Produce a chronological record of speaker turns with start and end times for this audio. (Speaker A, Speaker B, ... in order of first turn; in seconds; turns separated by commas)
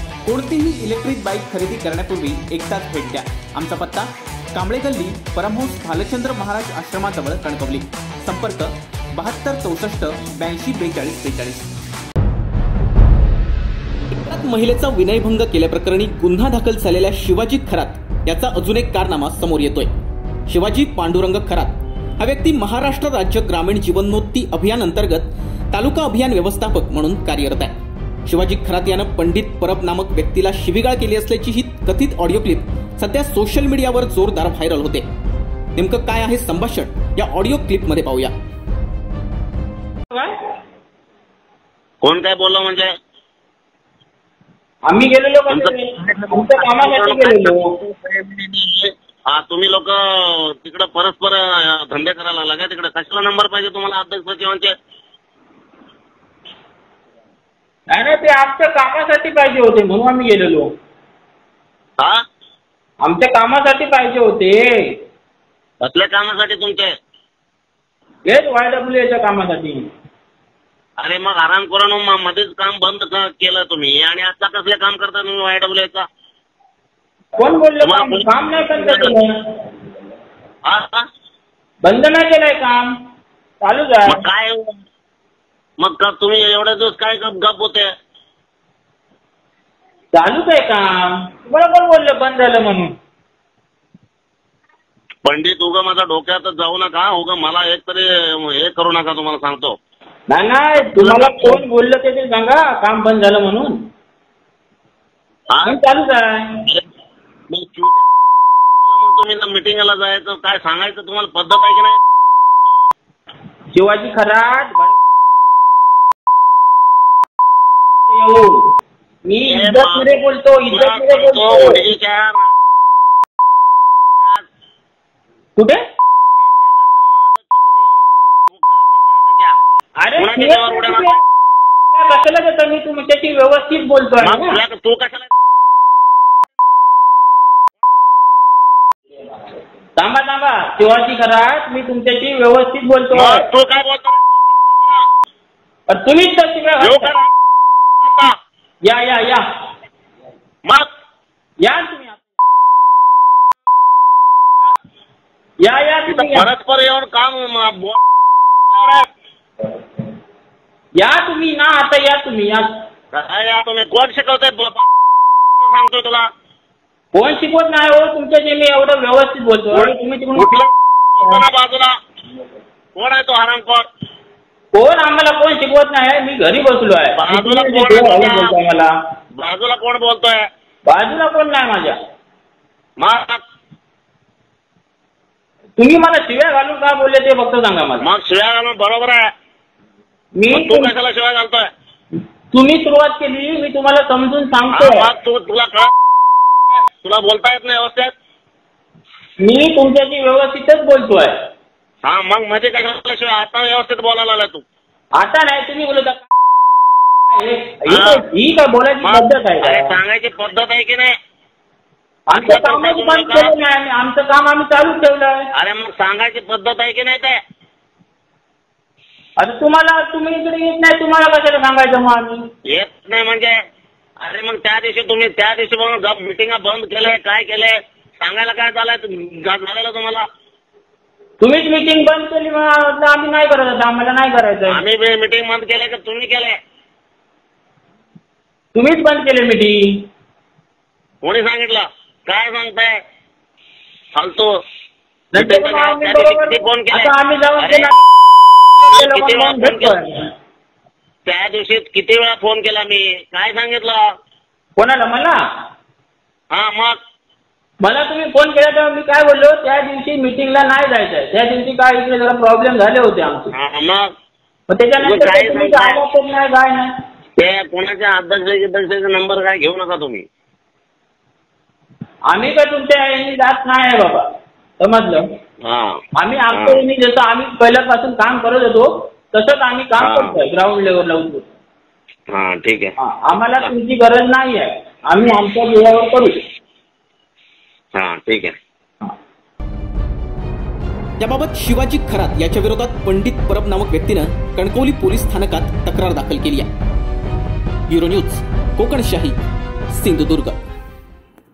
Speaker A: 0.2-11.7, Speaker A: 14.2-19.9, Speaker A: 20.5-27.7, Speaker A: 28.3-35.0, Speaker A: 35.8-38.3, Speaker B: 42.0-42.9, Speaker C: 44.9-47.7, Speaker B: 45.5-49.9, Speaker B: 50.5-54.7, Speaker C: 57.9-60.7, Speaker C: 63.0-64.9, Speaker B: 65.8-66.9, Speaker C: 68.3-69.9, Speaker B: 71.0-76.0, Speaker C: 77.4-79.3, Speaker B: 77.8-79.1, Speaker B: 80.7-81.0, Speaker C: 81.8-82.9, Speaker C: 83.6-84.2, Speaker B: 84.1-84.8, Speaker B: 85.8-87.9, Speaker C: 90.1-92.9, Speaker B: 95.2-99.8, Speaker C: 100.3-103.8, Speaker B: 100.9-101.6, Speaker B: 105.5-105.8, Speaker C: 105.6-106.4, Speaker B: 107.5-108.0, Speaker B: 108.8-112.0, Speaker C: 113.7-115.0, Speaker C: 118.0-118.7, Speaker C: 119.3-121.8, Speaker B: 119.5-120.1, Speaker B: 120.7-122.5, Speaker B: 126.4-129.5, Speaker C: 130.0-131.1, Speaker B: 130.2-131.3, Speaker C: 131.9-134.6, Speaker B: 134.2-135.4, Speaker C: 140.0-143.4, Speaker B: 143.1-145.0, Speaker C: 145.9-147.1, Speaker B: 146.8-147.3, Speaker B: 148.0-148.3, Speaker C: 148.8-149.4, Speaker C: 151.6-152.2, Speaker C: 155.6-156.5, Speaker B: 156.1-158.0, Speaker B: 158.7-159.0, Speaker C: 161.0-162.7, Speaker B: 163.1-164.9, Speaker B: 165.6-166.3, Speaker C: 167.1-170.5, Speaker B: 169.7-171.9, Speaker B: 172.9-173.8, Speaker C: 174.7-178.9, Speaker B: 177.2-178.5, Speaker B: 179.4-180.4, Speaker C: 180.9-181.9, Speaker B: 183.0-183.4, Speaker C: 185.8-188.0, Speaker B: 188.0-189.3, Speaker C: 190.3-190.9, Speaker B: 190.5-191.7, Speaker C: 192.5-195.1, Speaker B: 194.7-195.9, Speaker B: 196.7-198.1, Speaker C: 199.4-201.3, Speaker B: 202.0-204.6, Speaker C: 205.2-206.2, Speaker C: 207.3-209.9, Speaker B: 207.9-208.2, Speaker B: 209.0-211.1, Speaker C: 212.3-215.4, Speaker B: 212.3-213.5, Speaker B: 215.6-217.4, Speaker C: 219.4-222.4, Speaker B: 222.7-223.5, Speaker B: 224.2-230.2, Speaker C: 231.4-234.8, Speaker B: 234.7-236.6, Speaker C: 238.7-239.9, Speaker B: 241.2-243.0, Speaker B: 244.2-244.5, Speaker C: 245.3-248.0, Speaker B: 245.3-247.9, Speaker C: 248.9-250.2, Speaker B: 248.9-249.9, Speaker B: 251.2-254.0, Speaker C: 254.8-255.4, Speaker B: 256.5-256.9, Speaker C: 257.8-263.5, Speaker B: 263.5-264.1, Speaker C: 264.7-266.9, Speaker B: 265.0-266.0, Speaker B: 267.4-270.2, Speaker C: 272.3-274.2, Speaker C: 274.8-275.2, Speaker B: 275.6-276.0, Speaker C: 276.1-281.5, Speaker B: 276.5-276.8, Speaker B: 280.0-280.4, Speaker B: 282.3-282.9, Speaker C: 283.0-286.4, Speaker B: 287.9-288.5, Speaker A: 291.2-296.7, Speaker A: 297.9-299.4, Speaker A: 299.9-300.6